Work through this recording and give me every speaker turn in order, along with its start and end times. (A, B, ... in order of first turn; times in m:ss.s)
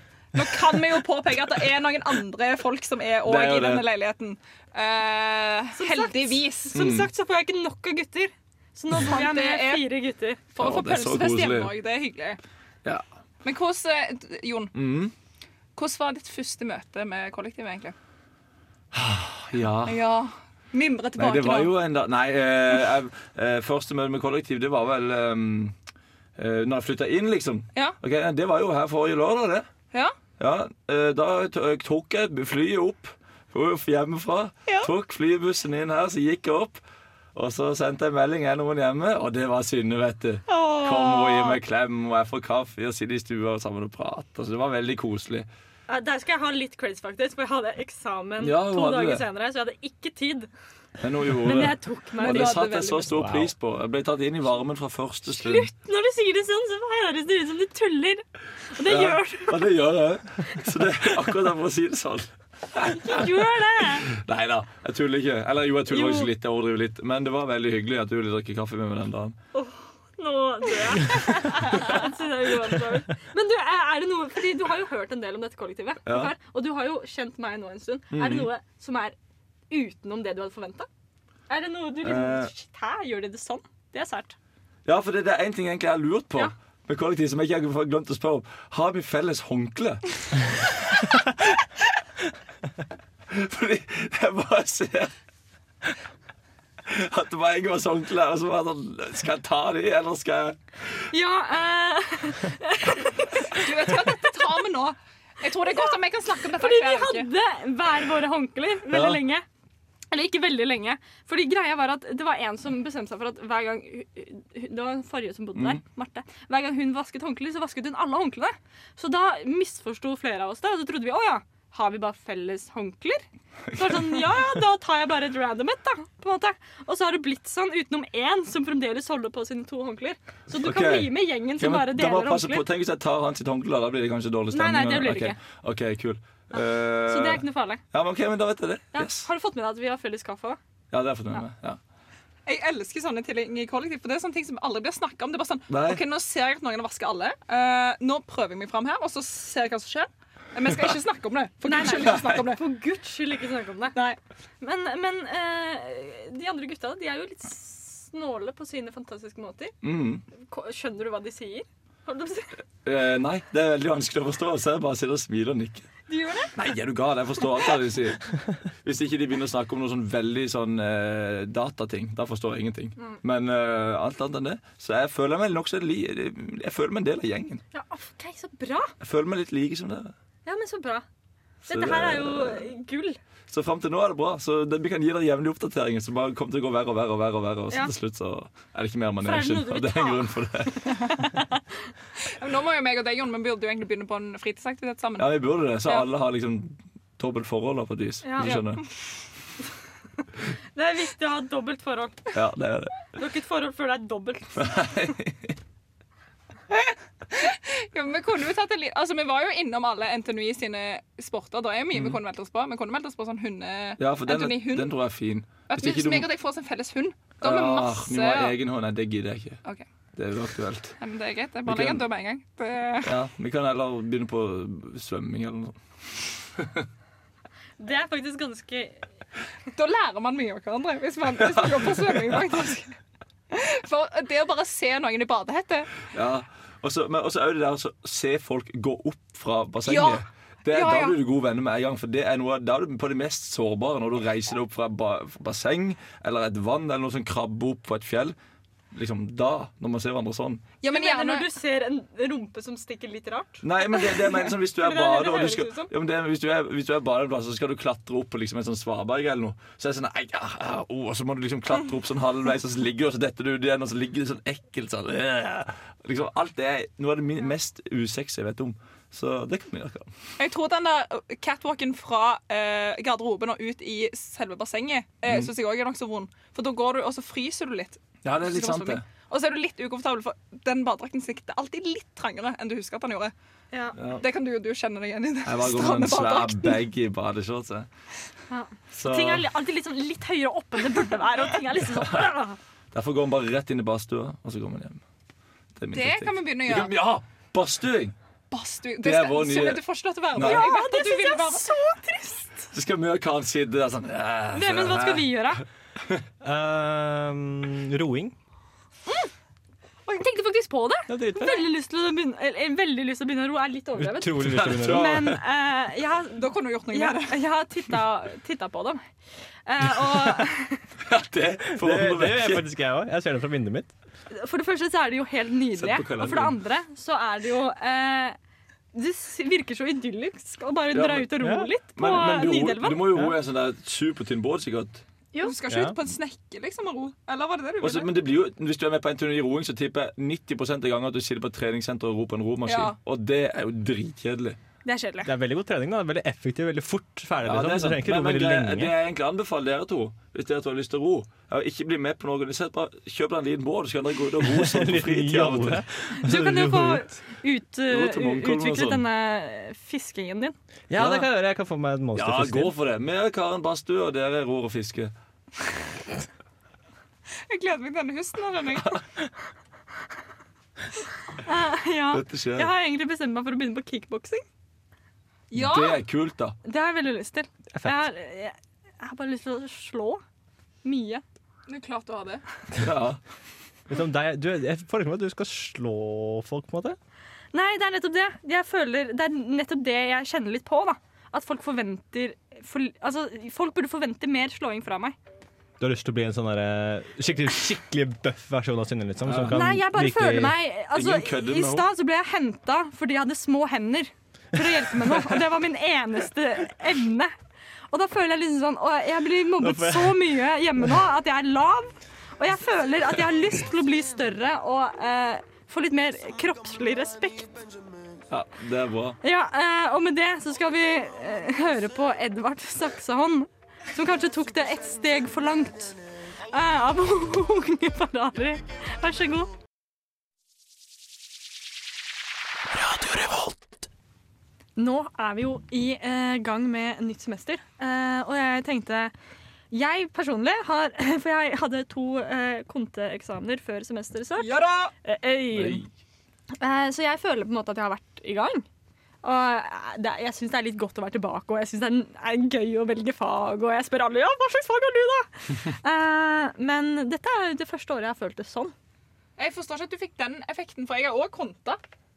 0:00.3-0:06.7 A
0:03.2-0:03.9 B
0:05.8-0:10.4 C
0:06.7-0:07.1 B
0:08.9-0:09.9 A
0:10.5-0:12.4 A
0:10.6-0:11.7 B
0:13.4-0:14.7 A
0:14.7-0:15.1 B
0:15.8-0:17.9 A
0:18.9-0:20.0 B
0:19.8-0:21.7 A
0:21.2-0:25.7 B
0:26.4-0:29.6 B
0:30.4-0:36.8 B
0:37.3-0:45.5 B
0:40.5-0:41.6 C
0:45.9-0:50.5 C
0:48.4-0:49.2 B
0:51.0-0:55.7 B
0:51.4-0:52.6 C
0:52.2-0:53.2 A
0:53.1-0:53.5 D
0:55.3-0:59.6 C
0:58.8-1:03.3 B
1:02.8-1:04.1 C
1:04.0-1:09.4 B
1:05.9-1:06.3 C
1:09.5-1:19.2 C
1:16.1-1:16.3 B
1:18.1-1:18.5 B
1:19.7-1:20.9 C
1:21.5-1:24.4 C
1:22.0-1:22.5 B
1:24.8-1:30.5 B
1:33.3-1:35.1 B
1:36.8-1:40.6 B
1:41.1-1:43.6 C
1:43.5-1:47.3 A
1:46.6-1:49.4 C
1:48.9-1:49.2 B
1:50.1-2:12.6 C
1:55.5-1:55.8 B
2:03.7-2:04.2 B
2:10.6-2:19.3 B
2:14.5-2:15.4 C
2:16.5-2:17.8 C
2:18.9-2:20.6 C
2:20.9-2:21.8 B
2:22.4-2:32.6 A
2:25.7-2:26.0 B
2:31.6-2:34.0 C
2:32.0-2:32.4 B
2:34.6-2:39.7 C
2:39.8-2:40.2 B
2:40.3-2:42.5 C
2:42.8-2:45.9 B
2:46.1-2:46.5 C
2:46.5-2:57.6 B
2:57.7-2:58.9 C
2:59.0-3:00.1 B
3:00.4-3:01.0 C
3:01.6-3:02.7 B
3:01.7-3:03.2 C
3:03.5-3:10.9 B
3:09.2-3:11.6 C
3:12.3-3:15.3 A
3:15.2-3:18.8 B
3:18.2-3:18.6 C
3:18.4-3:18.8 A
3:20.7-3:22.2 C
3:22.3-3:23.0 B
3:23.1-3:24.9 C
3:24.6-3:25.5 B
3:26.7-3:34.9 A
3:34.0-3:36.3 B
3:35.7-3:38.6 A
3:37.4-3:39.6 B
3:40.2-3:41.0 B
3:41.0-3:43.1 A
3:41.6-3:42.0 B
3:43.0-3:45.8 B
3:47.8-3:49.0 C
3:49.7-3:53.0 A
3:51.4-3:52.4 B
3:53.5-3:56.0 A
3:56.1-4:08.3 B
3:59.8-4:01.2 A
4:08.9-4:10.6 B
4:10.8-4:11.4 A
4:10.9-4:15.9 C
4:13.6-4:30.1 B
4:30.4-4:43.3 A
4:38.2-4:39.0 B
4:43.7-4:44.0 C
4:44.0-4:44.2 B
4:44.2-4:46.8 A
4:45.4-4:47.9 B
4:48.5-4:52.6 C
4:48.9-4:49.4 B
4:52.9-4:55.0 B
4:55.8-4:58.1 B
4:55.9-4:56.9 A
4:58.5-5:01.7 A
4:59.0-5:00.7 B
5:00.4-5:02.6 C
5:02.7-5:05.3 B
5:04.5-5:05.6 C
5:06.4-5:08.3 D
5:10.0-5:11.0 A
5:11.1-5:11.4 B
5:11.3-5:19.0 C
5:14.0-5:15.2 D
5:14.4-5:15.4 B
5:16.4-5:17.4 A
5:19.6-5:20.8 C
5:21.0-5:22.6 B
5:21.7-5:23.9 D
5:24.3-5:28.4 C
5:25.7-5:26.6 B
5:28.9-5:33.3 C
5:30.9-5:31.3 B
5:31.4-5:31.7 D
5:32.0-5:35.0 B
5:35.4-5:38.1 A
5:35.7-5:36.0 D
5:37.8-5:44.6 B
5:42.6-5:43.0 A
5:44.8-5:45.3 C
5:45.2-5:48.9 D
5:47.4-5:55.8 B
5:54.4-5:57.1 D
5:56.2-6:00.6 C
5:57.9-5:59.0 B
6:00.9-6:02.7 D
6:01.0-6:01.3 B
6:02.1-6:05.1 B
6:07.5-6:09.0 A
6:11.4-6:14.4 C
6:12.1-6:12.7 B
6:15.5-6:16.0 A
6:15.5-6:16.6 B
6:16.6-6:20.2 C
6:17.7-6:18.1 D
6:20.8-6:21.2 C
6:21.7-6:22.4 A
6:22.8-6:23.2 B
6:23.9-6:27.0 D
6:27.5-6:35.2 C
6:35.8-6:40.6 D
6:39.2-6:39.6 B
6:39.5-6:47.3 C
6:40.9-6:41.9 B
6:47.9-6:57.5 C
6:49.6-6:50.3 D
6:58.3-6:59.2 B
6:59.2-7:06.0 C
7:06.5-7:09.5 C
7:14.8-7:19.1 C
7:19.7-7:25.8 C
7:24.4-7:24.9 A
7:25.5-7:25.8 B
7:26.6-7:28.6 C
7:29.2-7:38.7 C
7:39.4-7:41.8 A